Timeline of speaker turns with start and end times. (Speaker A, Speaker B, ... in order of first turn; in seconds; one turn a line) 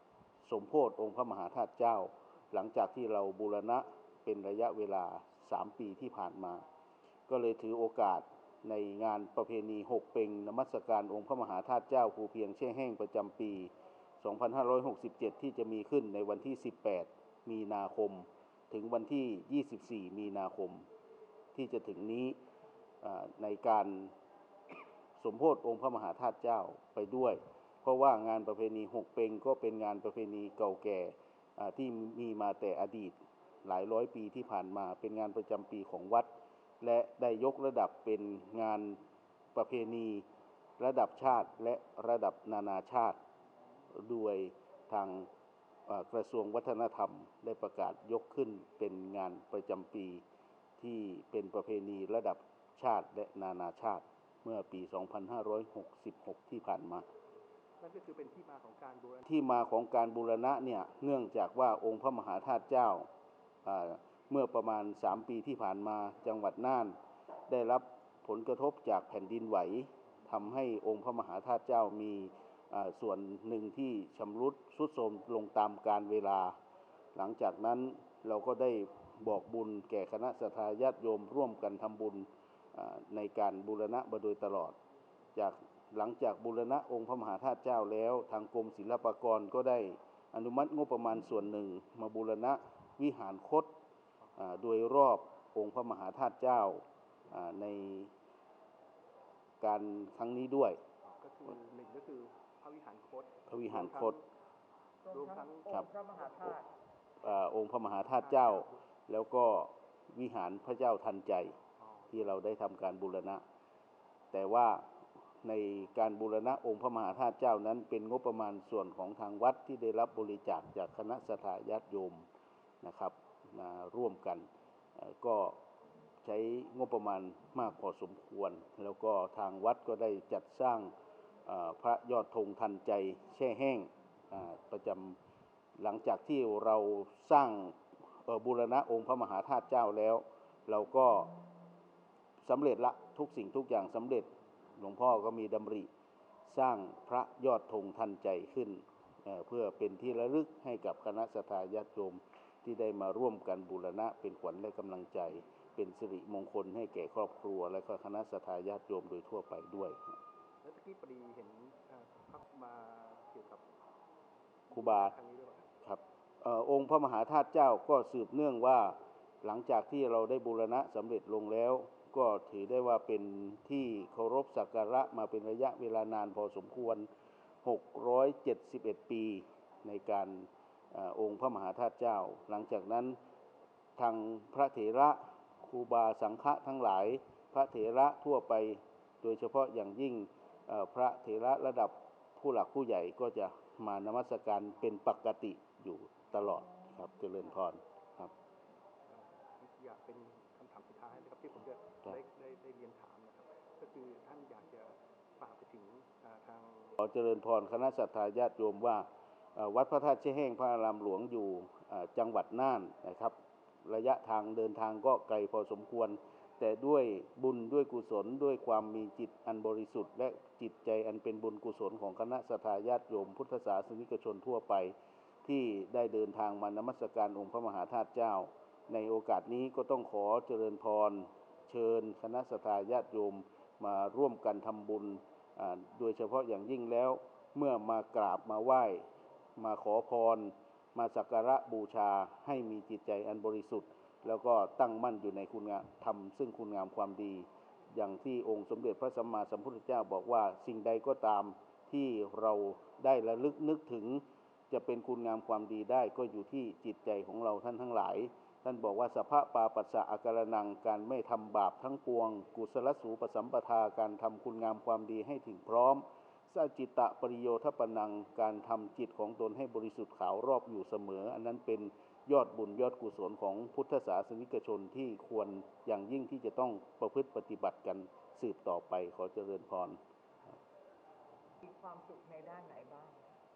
Speaker A: 0.4-6.7
Speaker A: 7.3-20.9
Speaker A: 21.6-22.4
Speaker A: 23.0-24.1
Speaker A: 25.2-36.3
Speaker A: 36.8-39.0
Speaker A: 39.5-40.2
Speaker A: 40.8-43.2
Speaker A: 43.9-45.3
Speaker A: 45.9-50.2
Speaker A: 50.8-57.1
Speaker B: 57.8-59.3
Speaker A: 59.3-63.1
Speaker A: 63.6-67.0
Speaker A: 67.5-76.6
Speaker A: 77.2-84.8
Speaker A: 85.4-93.7
Speaker A: 94.4-98.1
Speaker A: 99.6-100.8
Speaker B: 101.0-104.3
Speaker A: 103.5-104.2
Speaker B: 105.0-105.9
Speaker C: 105.1-106.7
Speaker A: 107.2-111.6
Speaker B: 108.3-108.7
Speaker B: 111.8-112.1
Speaker A: 112.1-113.4
Speaker A: 114.3-114.9
Speaker A: 115.4-122.3
Speaker A: 122.8-124.5
Speaker A: 125.0-125.6
Speaker A: 126.2-130.9
Speaker A: 131.5-135.2
Speaker A: 135.8-141.3
Speaker A: 142.4-145.9
Speaker A: 146.4-160.2
Speaker B: 160.6-163.7
Speaker B: 164.7-165.7
Speaker A: 164.7-165.1
Speaker A: 165.8-177.1
Speaker A: 177.6-183.2
Speaker A: 184.0-198.3
Speaker B: 199.1-207.0
Speaker A: 207.0-224.9
Speaker A: 225.4-280.0
Speaker C: 281.6-283.2